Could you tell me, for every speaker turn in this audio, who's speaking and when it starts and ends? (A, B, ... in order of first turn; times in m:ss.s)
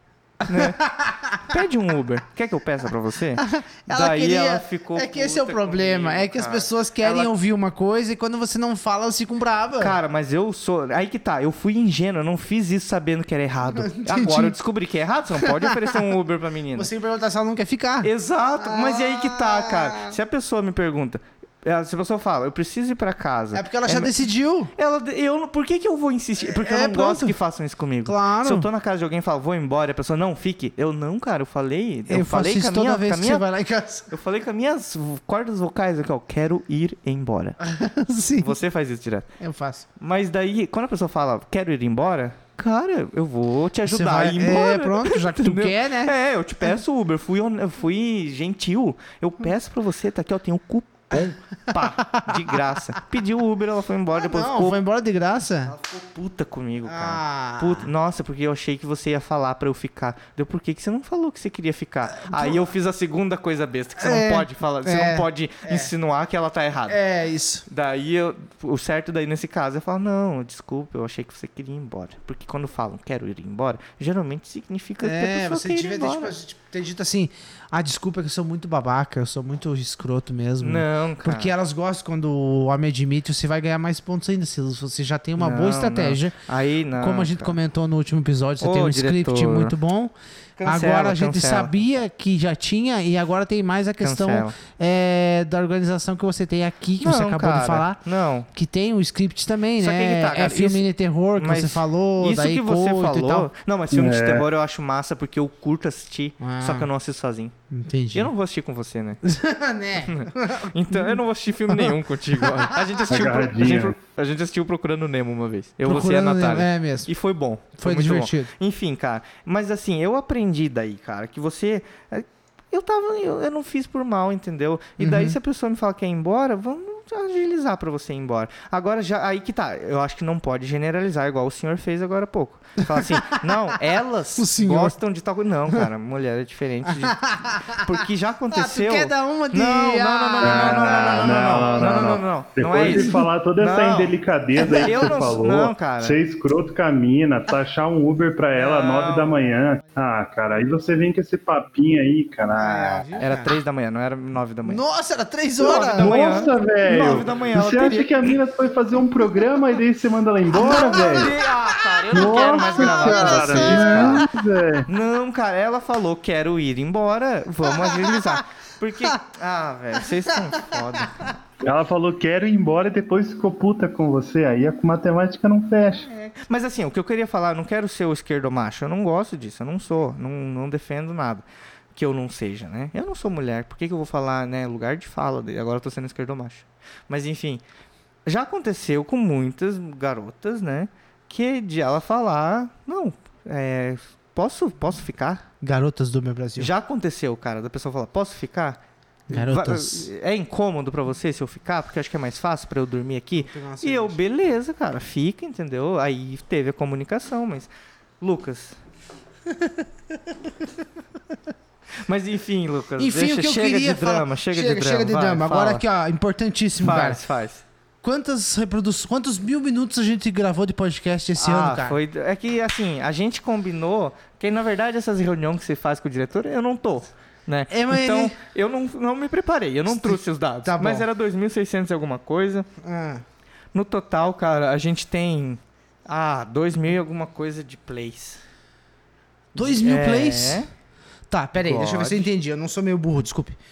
0:00.5-0:00.8 A
0:00.6-0:01.5 B
0:01.4-0:07.3 A
0:03.4-0:10.0 B
0:09.8-0:16.9 A
0:13.7-0:14.6 B
0:15.4-0:16.0 B
0:16.8-0:20.2 B
0:18.0-0:24.1 A
0:23.5-0:24.7 B
0:24.8-0:33.4 A
0:26.5-0:27.4 B
0:28.0-0:28.7 B
0:32.1-0:34.1 B
0:34.1-0:37.6 A
0:37.6-0:38.6 B
0:38.4-0:39.3 A
0:39.4-0:39.9 B
0:40.0-0:54.8 A
0:43.8-0:46.1 B
0:51.7-0:52.6 B
0:54.2-0:55.7 B
0:55.6-1:07.0 A
0:56.9-0:57.9 B
1:02.2-1:02.6 B
1:04.0-1:05.9 B
1:06.9-1:07.7 B
1:07.7-1:16.3 A
1:15.0-1:26.4 B
1:20.6-1:21.5 A
1:25.4-1:27.6 A
1:27.0-1:38.0 B
1:28.6-1:29.8 A
1:30.6-1:31.7 A
1:34.0-1:34.6 A
1:37.0-1:38.5 A
1:38.5-1:43.5 B
1:39.8-1:47.5 A
1:43.9-1:44.5 C
1:46.4-1:46.9 B
1:47.7-1:48.3 B
1:48.1-1:49.2 A
1:49.2-1:51.2 B
1:50.0-2:26.2 A
1:51.7-1:52.8 B
1:53.1-1:54.0 C
1:55.8-1:57.1 B
1:57.8-1:58.5 B
2:05.0-2:05.4 B
2:12.8-2:13.8 B
2:14.4-2:15.0 B
2:17.0-2:17.8 B
2:18.5-2:21.9 B
2:20.4-2:33.0 C
2:22.9-2:23.2 B
2:28.6-2:29.4 A
2:32.6-2:33.6 B
2:33.2-2:34.8 A
2:34.7-2:36.1 B
2:35.6-2:41.4 C
2:35.6-2:38.3 A
2:40.5-2:44.3 A
2:40.6-2:44.3 B
2:42.1-2:44.9 C
2:44.9-2:51.4 A
2:47.8-2:48.4 B
2:51.6-2:56.1 C
2:55.9-3:07.6 A
3:08.3-3:15.4 A
3:15.6-3:16.7 B
3:16.6-3:18.8 A
3:19.3-3:20.1 B
3:19.3-3:27.7 A
3:23.4-3:24.2 B
3:28.2-3:28.8 A
3:29.5-3:29.8 B
3:32.0-3:35.8 A
3:33.0-3:37.2 B
3:36.8-3:37.6 A
3:38.0-3:42.0 B
3:41.4-3:52.7 A
3:47.7-3:48.4 B
3:50.0-3:51.1 B
3:52.8-3:53.2 B
3:53.7-3:58.4 A
3:59.6-4:00.6 B
3:59.6-4:00.7 A
4:01.3-4:03.6 B
4:01.6-4:02.3 A